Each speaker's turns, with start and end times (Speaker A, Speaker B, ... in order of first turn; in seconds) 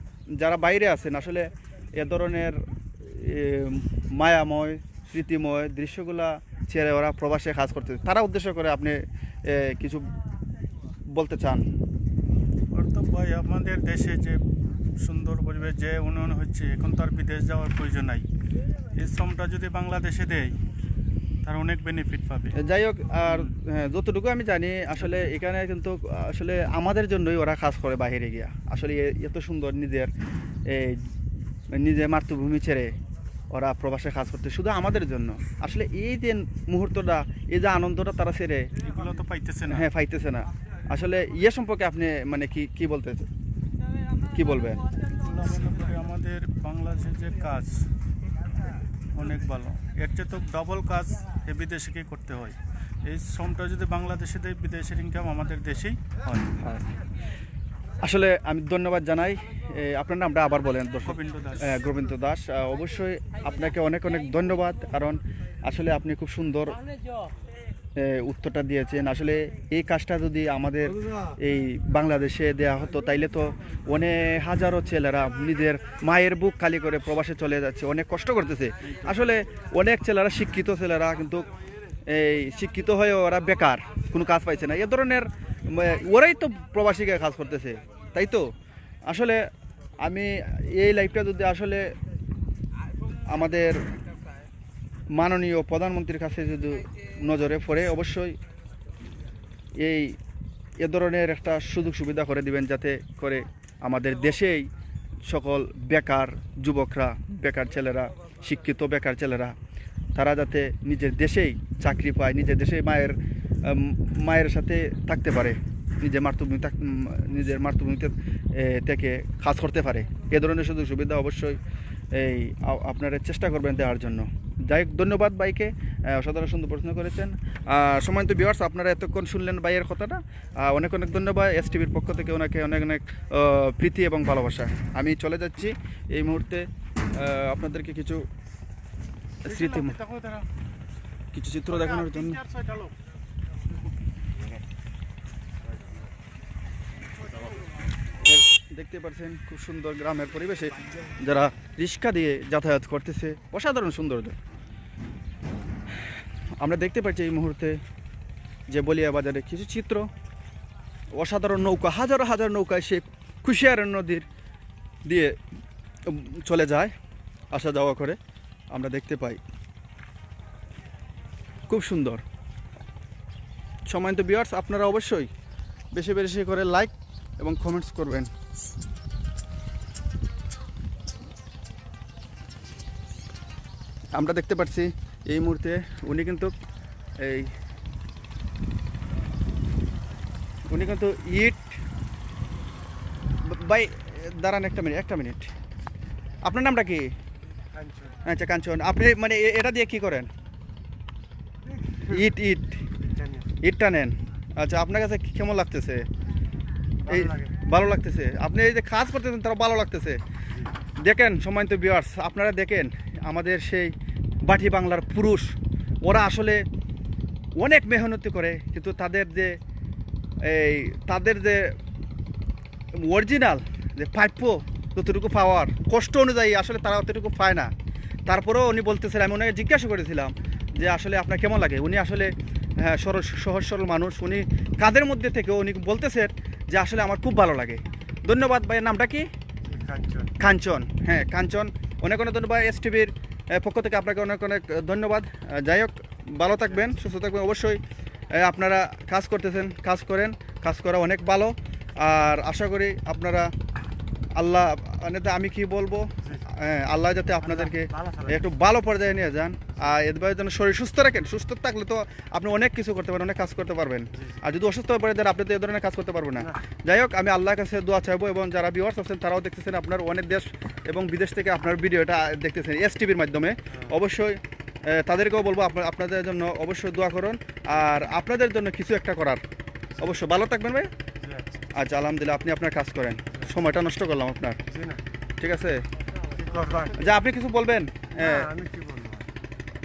Speaker A: 0.3-10.1, 11.1-11.7, 22.6-30.1, 30.7-31.1, 31.7-33.0, 33.5-38.7, 39.7-43.3, 44.3-44.8, 58.0-66.8, 68.0-81.5, 82.1-88.5, 89.1-89.5, 90.0-92.0, 93.2-93.8, 95.1-98.4, 99.8-100.2, 100.8-104.7, 105.2-109.6, 110.2-121.6, 122.1-138.2, 139.4-140.0, 141.3-142.4, 148.2-154.4, 156.6-157.8, 158.7-160.1, 161.1-164.2, 165.1-165.4, 166.1-166.9, 167.5-168.2, 168.7-169.4, 171.7-172.2, 173.9-175.3, 175.9-178.3, 184.2-186.5, 187.2-187.5, 190.7-191.7, 193.4-195.5, 196.4-197.1, 198.2-200.3, 202.1-202.8, 203.6-206.1, 207.1-210.2, 211.0-216.7, 217.6-219.6, 220.4-221.8, 222.9-227.7, 228.3-239.3, 240.4-247.8, 248.3-253.5, 254.3-279.4, 280.0-280.9, 281.7-284.6, 285.4-285.8, 287.0-288.5
Speaker B: 12.7-14.4, 15.0-18.3, 18.9-20.6, 21.4-22.6, 23.3-23.6, 38.8-39.9, 45.2-47.9, 49.1-56.6, 61.0-61.8, 139.4-140.5, 141.7-142.9
Speaker C: 197.7-198.2, 201.8-202.3, 203.1-203.5, 207.0-207.5, 239.7-240.3, 257.4-258.5, 264.1-264.4, 281.2-281.6, 284.7-285.0, 286.3-287.1, 288.2-289.3